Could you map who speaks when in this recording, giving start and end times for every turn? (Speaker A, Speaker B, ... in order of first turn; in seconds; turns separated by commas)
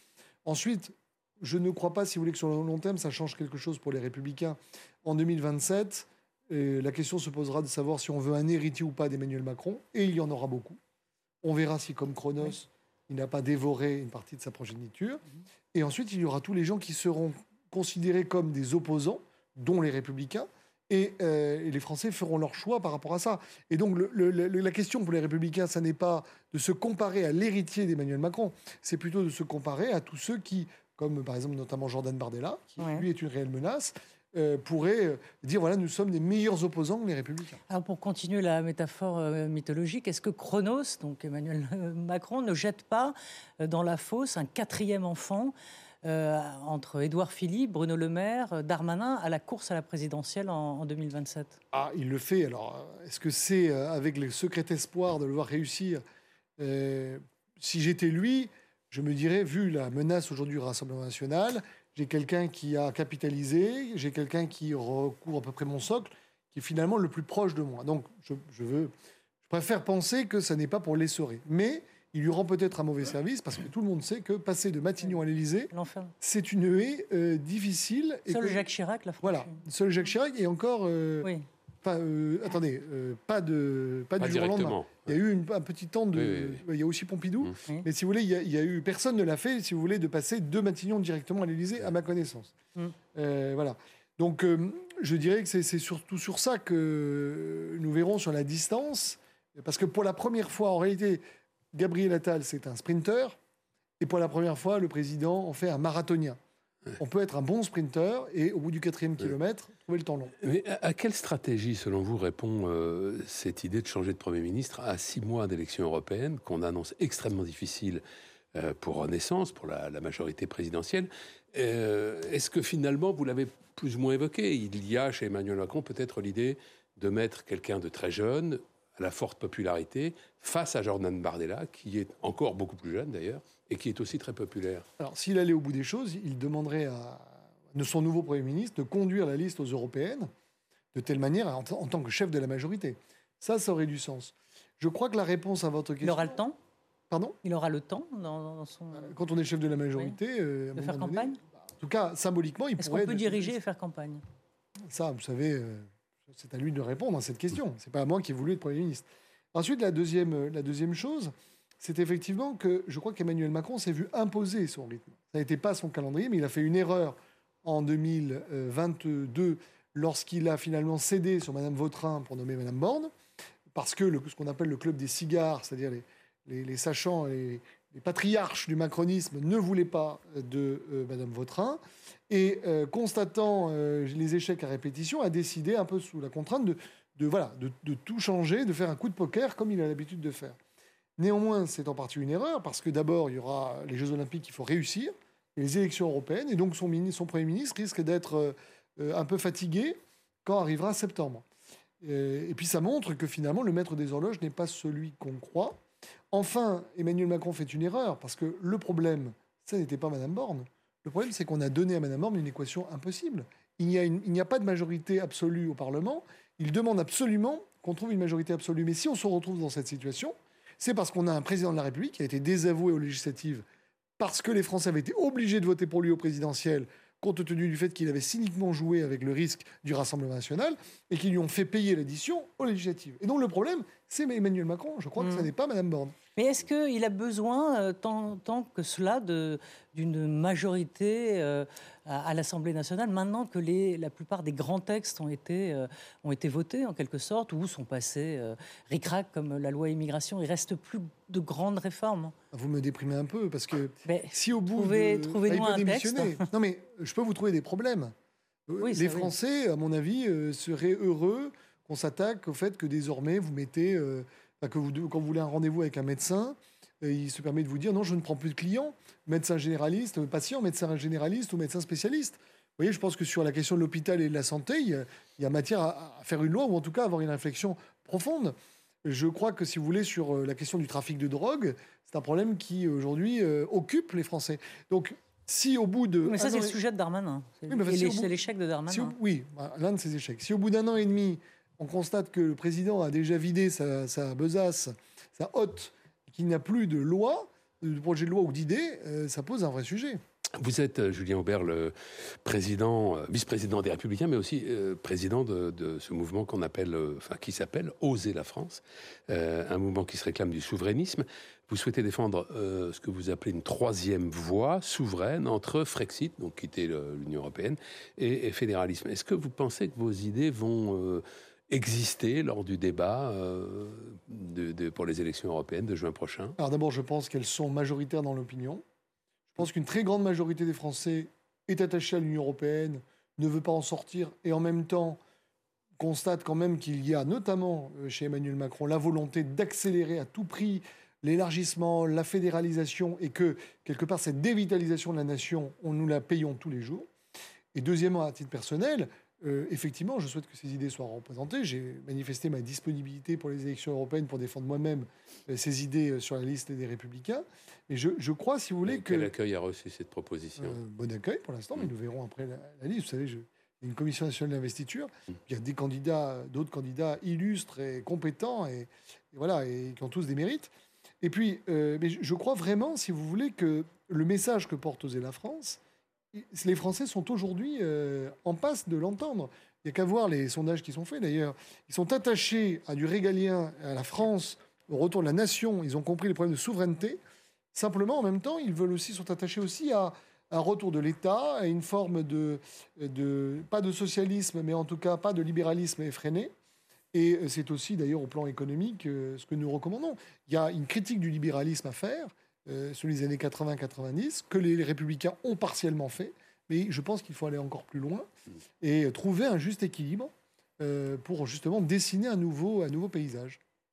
Speaker A: 0.4-10.8, Speaker A: 11.4-15.2, Speaker A: 15.7-37.6, Speaker B: 32.8-33.0, Speaker B: 37.7-51.6, Speaker A: 51.7-56.0, Speaker A: 56.6-68.9, Speaker A: 69.4-78.7, Speaker B: 75.7-76.1, Speaker B: 78.3-79.6, Speaker A: 79.2-81.3, Speaker A: 81.8-92.5, Speaker C: 84.2-85.2, Speaker C: 86.1-86.6, Speaker A: 93.1-101.2, Speaker A: 101.7-103.3, Speaker A: 104.0-106.4, Speaker A: 107.0-110.3, Speaker C: 110.4-118.0, Speaker C: 118.5-134.8, Speaker A: 135.0-140.3, Speaker A: 140.9-146.4, Speaker B: 146.0-146.6, Speaker A: 147.1-147.4, Speaker B: 147.4-149.1, Speaker A: 148.9-153.5, Speaker B: 150.7-151.4, Speaker B: 152.8-154.2, Speaker A: 154.9-173.1, Speaker A: 173.7-190.6, Speaker A: 191.2-201.4, Speaker A: 202.0-205.8, Speaker A: 206.3-223.6, Speaker A: 224.2-236.1, Speaker B: 235.2-235.5, Speaker B: 236.3-252.3, Speaker A: 252.5-258.1, Speaker B: 254.1-256.5, Speaker A: 258.7-278.5, Speaker B: 258.8-259.3, Speaker A: 279.0-286.8, Speaker B: 286.2-289.1, Speaker A: 287.7-288.4, Speaker A: 288.9-300.2, Speaker C: 300.6-326.6, Speaker A: 326.6-328.8, Speaker A: 329.5-335.2, Speaker A: 336.0-347.1, Speaker A: 347.7-359.3, Speaker C: 358.9-360.8, Speaker A: 360.6-370.7, Speaker A: 371.2-375.8, Speaker A: 376.3-387.2, Speaker A: 387.7-396.5, Speaker A: 397.1-408.3, Speaker A: 408.8-413.6